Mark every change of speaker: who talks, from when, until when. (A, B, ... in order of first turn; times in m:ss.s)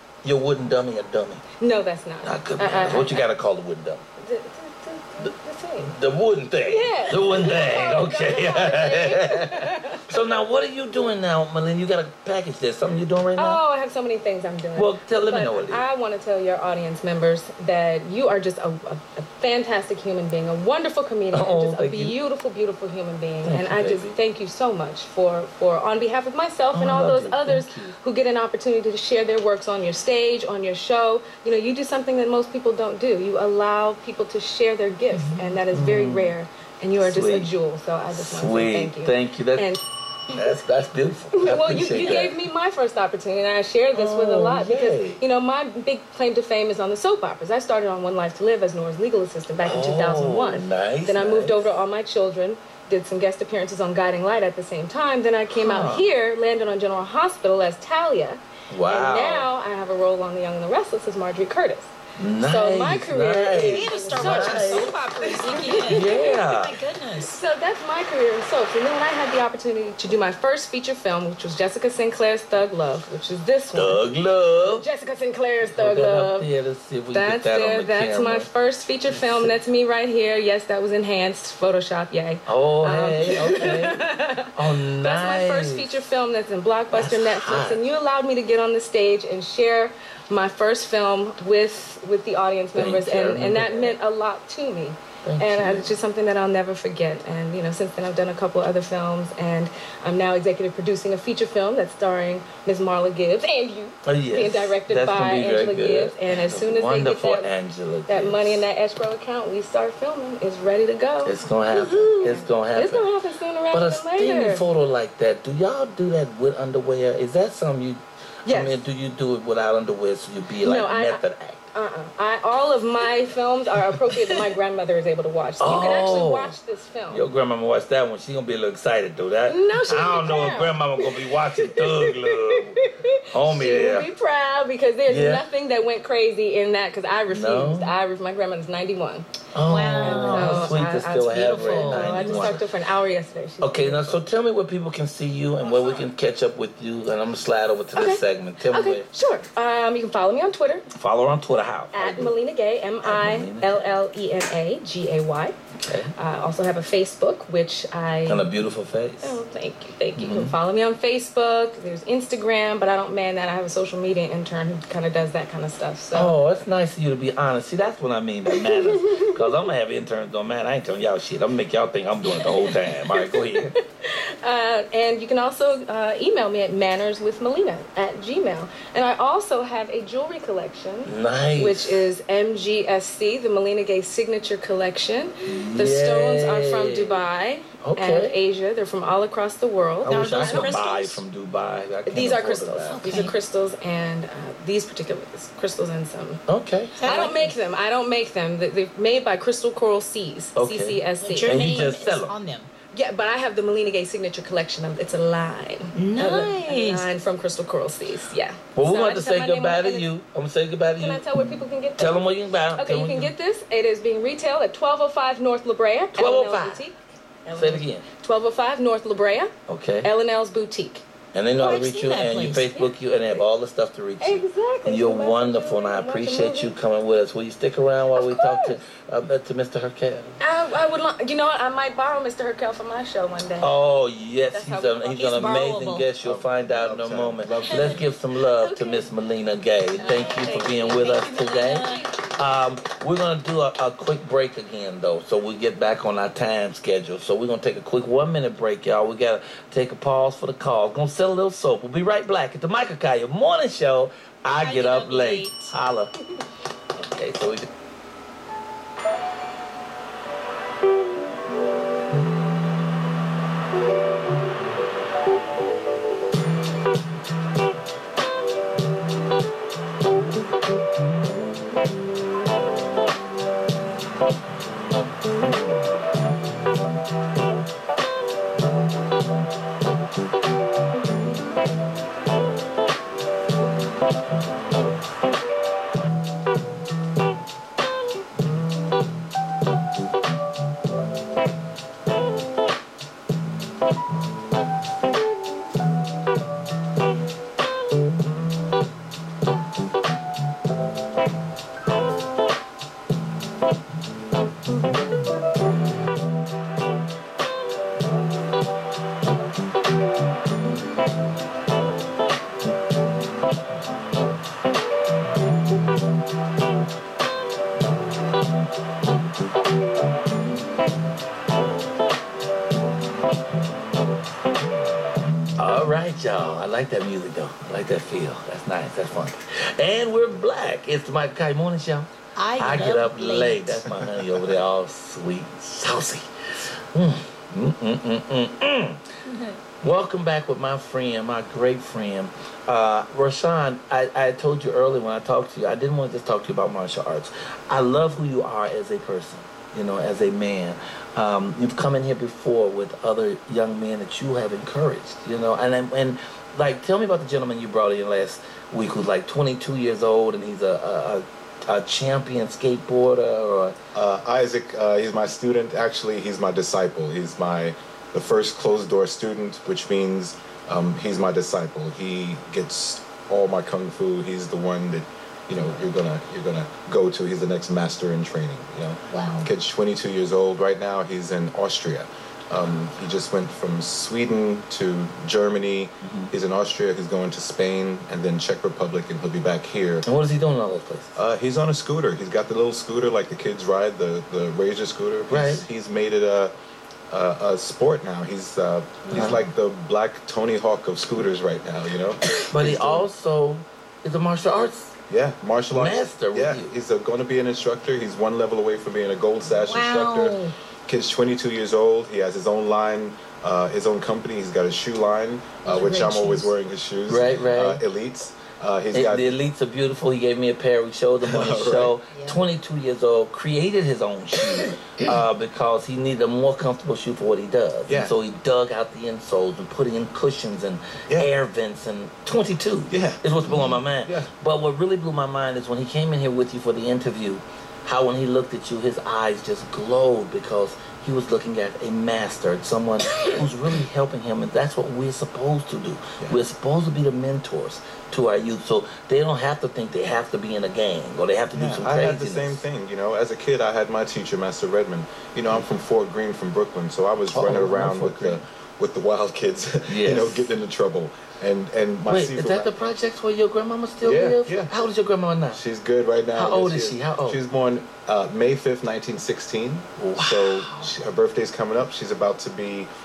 0:00.2-0:01.4 A
0:01.6-0:03.2 B
0:02.2-0:04.0 A
0:04.2-0:05.9 B
0:05.8-0:13.6 A
0:06.6-0:10.0 B
0:13.4-0:40.4 B
0:14.8-0:15.8 A
0:21.3-0:22.2 A
0:23.4-0:24.2 A
0:26.7-0:27.9 A
0:35.1-0:35.5 C
0:35.7-0:36.3 A
0:37.0-0:37.5 A
0:38.1-0:39.7 A
0:40.3-0:42.4 A
0:41.4-1:06.4 B
0:43.9-0:45.2 A
0:49.6-0:51.7 A
0:55.6-0:56.1 A
0:58.7-0:59.4 A
1:02.2-1:04.9 A
1:03.6-1:07.4 C
1:05.8-1:06.8 A
1:07.2-1:14.1 B
1:13.7-1:14.8 A
1:14.7-1:16.5 B
1:15.7-1:18.5 A
1:17.1-1:47.5 B
1:19.1-1:19.5 A
1:22.4-1:26.0 A
1:26.9-1:27.8 A
1:32.8-1:33.9 A
1:35.2-1:35.9 A
1:44.0-1:48.6 A
1:48.1-1:54.6 B
1:51.2-1:53.1 A
1:53.7-2:01.6 A
1:58.4-1:58.8 B
2:00.6-2:01.2 B
2:01.7-2:07.2 B
2:05.6-2:06.6 A
2:07.1-2:14.1 A
2:09.5-2:19.3 B
2:15.1-2:15.4 A
2:17.3-2:17.9 A
2:19.5-2:22.6 A
2:19.6-2:22.6 C
2:20.0-2:24.2 B
2:23.6-2:29.1 A
2:25.6-2:26.0 B
2:27.9-2:30.9 B
2:30.9-2:32.4 A
2:31.9-2:35.6 B
2:33.0-2:33.9 A
2:35.8-2:36.1 A
2:36.2-2:38.5 B
2:38.3-2:39.4 A
2:39.2-2:46.3 B
2:40.2-2:40.6 A
2:46.1-2:53.8 A
2:48.6-2:49.3 B
2:52.2-3:10.8 B
3:01.1-3:02.0 A
3:05.4-3:07.2 A
3:07.8-3:08.4 A
3:10.0-3:13.1 A
3:10.0-3:11.2 C
3:12.1-3:16.4 B
3:12.9-3:13.3 C
3:16.5-3:17.3 A
3:17.0-3:17.6 C
3:17.0-3:21.9 B
3:20.6-3:22.3 A
3:21.2-3:22.7 C
3:22.9-3:30.1 B
3:25.9-3:27.0 C
3:28.8-3:31.2 A
3:31.0-3:37.0 B
3:32.0-3:33.3 A
3:36.1-3:36.8 A
3:37.5-3:38.0 A
3:37.5-3:39.5 B
3:39.7-3:40.1 A
3:40.0-3:41.0 B
3:41.3-3:50.4 A
3:41.6-3:42.7 C
3:42.7-3:43.4 B
3:44.2-3:46.7 B
3:48.1-3:48.8 B
3:50.4-3:53.8 B
3:53.6-4:16.1 A
3:54.5-3:55.7 B
3:55.2-3:56.1 C
3:56.2-3:58.1 D
3:57.6-3:58.0 C
3:58.6-3:59.1 B
4:00.0-4:02.1 B
4:00.0-4:02.2 C
4:14.6-4:15.7 C
4:16.9-4:17.7 A
5:25.6-5:39.1 A
5:32.4-5:33.9 C
5:39.2-5:39.6 C
5:39.8-6:03.8 A
6:03.9-6:30.0 D
6:19.1-6:19.5 C
6:26.0-6:26.3 A
6:30.0-6:31.2 A
6:31.2-6:36.5 D
6:35.3-6:35.7 A
6:37.1-6:43.1 D
6:39.1-6:39.4 C
6:39.1-6:39.4 A
6:42.5-6:44.9 A
6:45.1-6:59.4 D
6:45.7-6:46.7 A
6:49.6-6:50.5 C
6:55.6-6:56.5 C
6:57.1-6:57.8 A
6:58.9-7:32.6 A
7:01.2-7:01.9 D
7:02.1-7:02.4 C
7:07.9-7:08.2 D
7:12.9-7:13.2 D
7:14.0-7:14.3 D
7:31.5-7:42.9 D
7:37.3-7:38.4 A
7:39.9-7:40.5 A
7:42.1-7:45.6 A
7:44.0-7:44.7 D
7:45.5-7:52.9 D
7:46.3-7:47.4 A
7:50.0-7:50.6 A
7:50.6-7:50.9 C